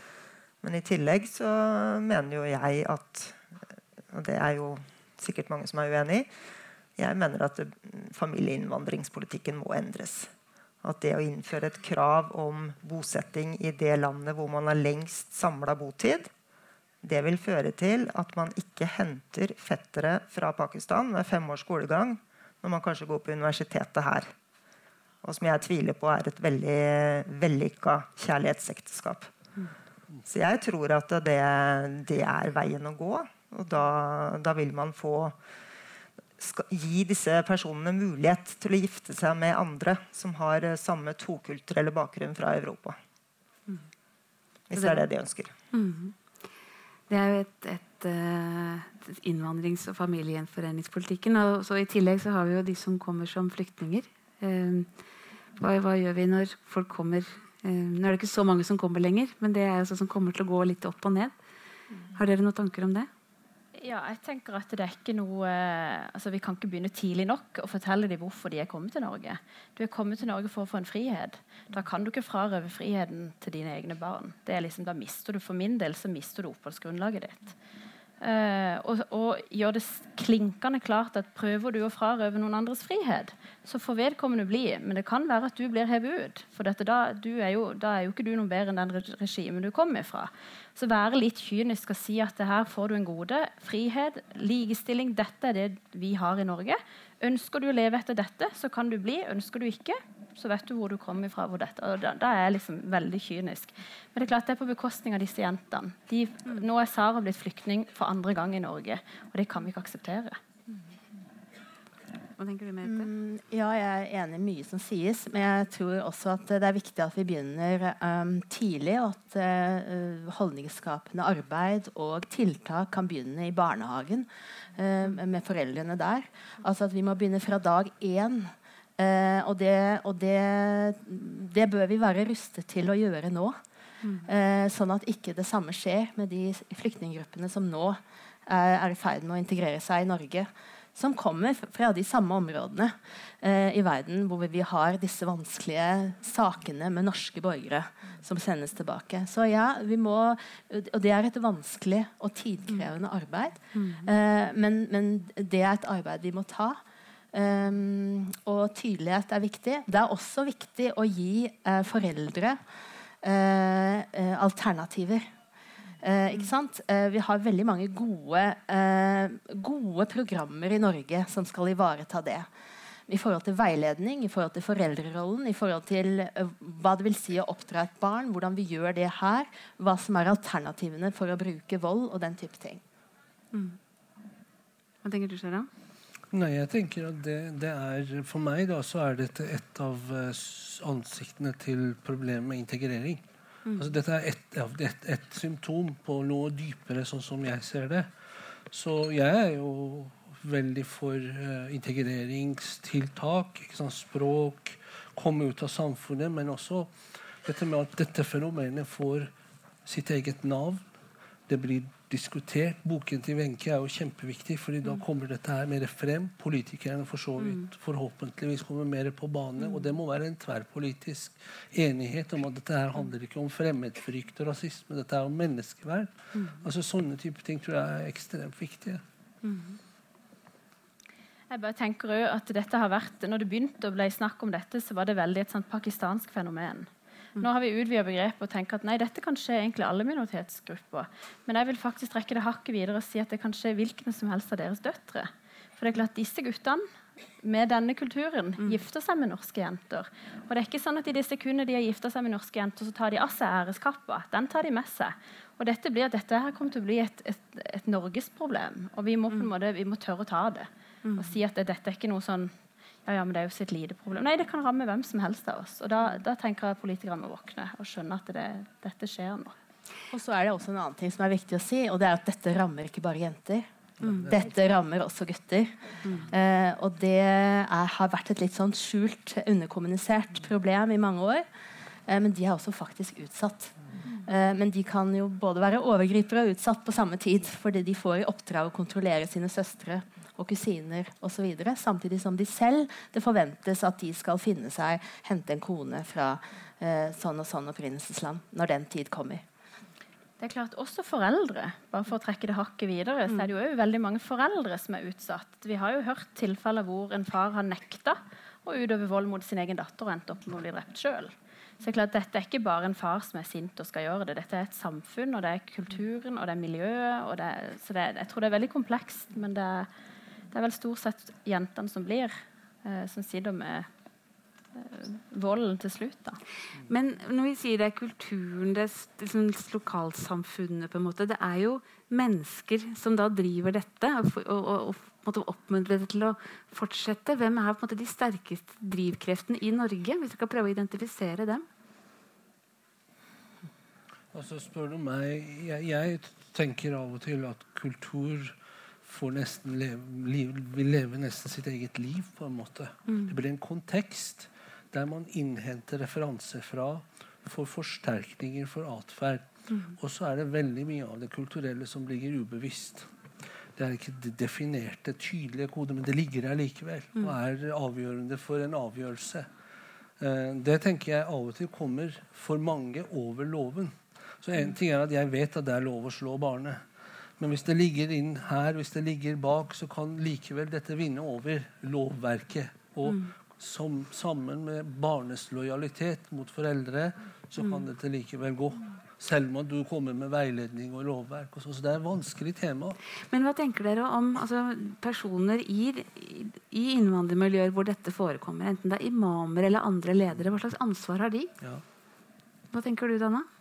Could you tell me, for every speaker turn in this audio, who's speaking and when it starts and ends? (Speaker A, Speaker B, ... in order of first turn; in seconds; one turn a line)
Speaker A: 0.6-3.4
Speaker A: 4.1-6.3
Speaker A: 7.0-10.3
Speaker A: 10.8-16.3
Speaker A: 17.0-24.3
Speaker A: 25.2-29.3
Speaker A: 30.2-35.4
Speaker A: 36.4-43.0
Speaker A: 44.7-45.5
Speaker B: 44.8-45.1
Speaker B: 45.7-46.1
Speaker B: 47.1-54.9
Speaker B: 55.6-61.3
Speaker B: 62.1-63.1
Speaker C: 63.8-77.5
Speaker C: 78.2-110.4
Speaker B: 112.4-113.1
Speaker D: 112.8-133.6
Speaker D: 134.2-156.8
Speaker B: 153.8-154.1
Speaker D: 157.3-162.6
Speaker D: 163.2-165.3
Speaker D: 166.0-172.5
Speaker D: 173.1-182.8
Speaker B: 183.5-183.8
Speaker B: 185.0-185.7
Speaker E: 186.3-193.2
Speaker E: 193.8-198.1
Speaker E: 198.7-206.9
Speaker E: 207.4-209.3
Speaker E: 209.8-210.8
Speaker E: 211.5-229.0
Speaker B: 226.3-226.6
Speaker B: 229.4-229.8
Speaker C: 231.5-246.8
Speaker C: 247.4-262.5
Speaker B: 261.1-261.3
Speaker C: 263.1-269.5
Speaker D: 270.1-273.7
Speaker B: 274.0-274.3
Speaker D: 274.2-281.4
Speaker D: 282.1-299.4
Speaker C: 300.4-319.9
Speaker C: 320.5-323.9
Speaker C: 324.7-326.4
Speaker B: 326.9-341.7
Speaker E: 344.3-363.1
Speaker E: 363.8-369.5
Speaker E: 370.2-376.8
Speaker E: 377.4-393.0
Speaker B: 393.3-401.5
Speaker B: 402.7-403.5